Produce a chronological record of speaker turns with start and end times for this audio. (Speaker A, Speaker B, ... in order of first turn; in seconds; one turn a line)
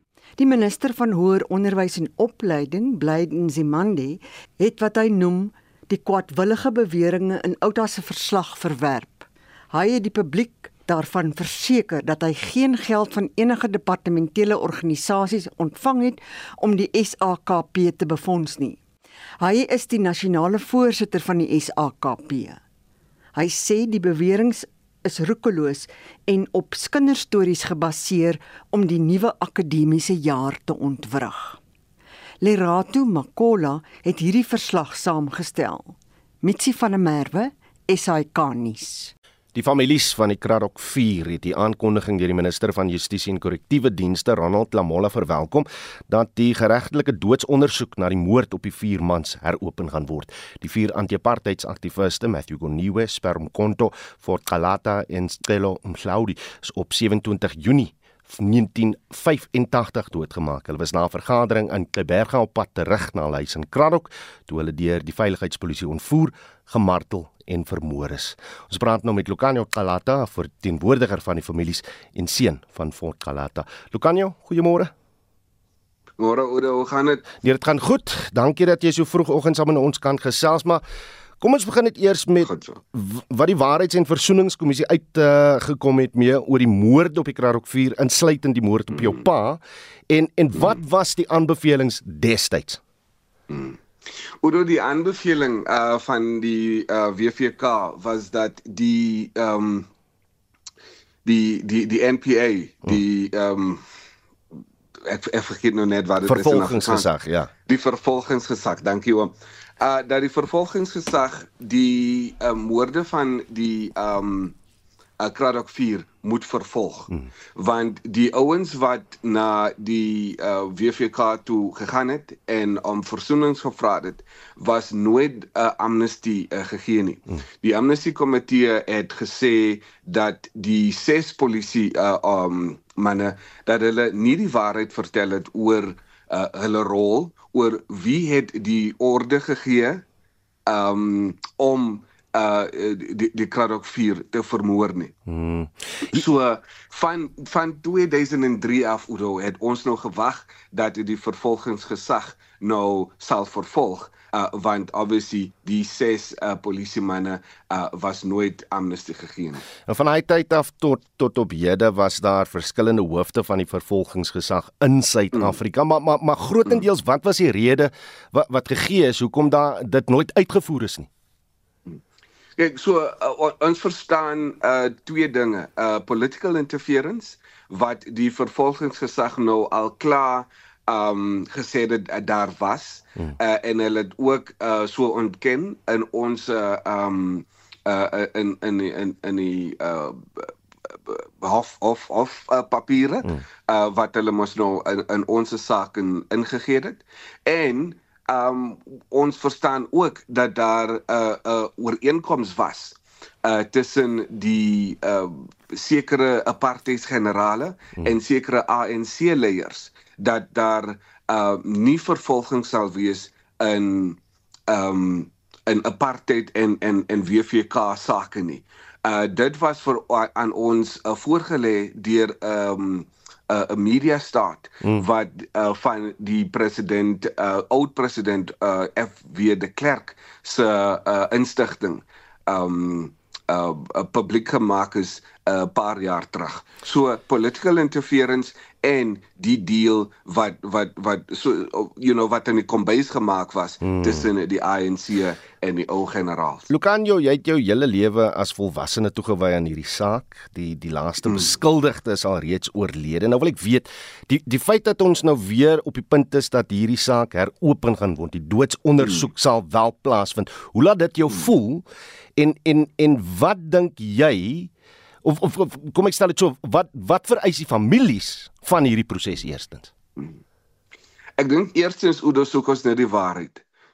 Speaker A: 0.4-18.8
Speaker A: 19.4-22.6
Speaker A: 23.4-31.6
Speaker A: 32.4-39.1
Speaker B: 39.5-74.9
Speaker C: 76.2-77.3
Speaker B: 77.4-80.8
Speaker B: 81.4-92.8
Speaker C: 82.4-82.8
Speaker C: 93.5-93.8
Speaker C: 94.4-99.9
Speaker C: 101.2-103.8
Speaker C: 105.0-107.1
Speaker B: 106.2-107.5
Speaker C: 107.7-114.5
Speaker C: 115.2-140.0
Speaker C: 140.7-145.1
Speaker B: 145.3-146.2
Speaker C: 146.1-159.6
Speaker B: 159.9-171.1
Speaker C: 172.6-246.7
Speaker B: 243.8-244.3
Speaker B: 246.7-261.8
Speaker B: 262.4-264.7
Speaker B: 265.2-269.9
Speaker C: 271.4-273.6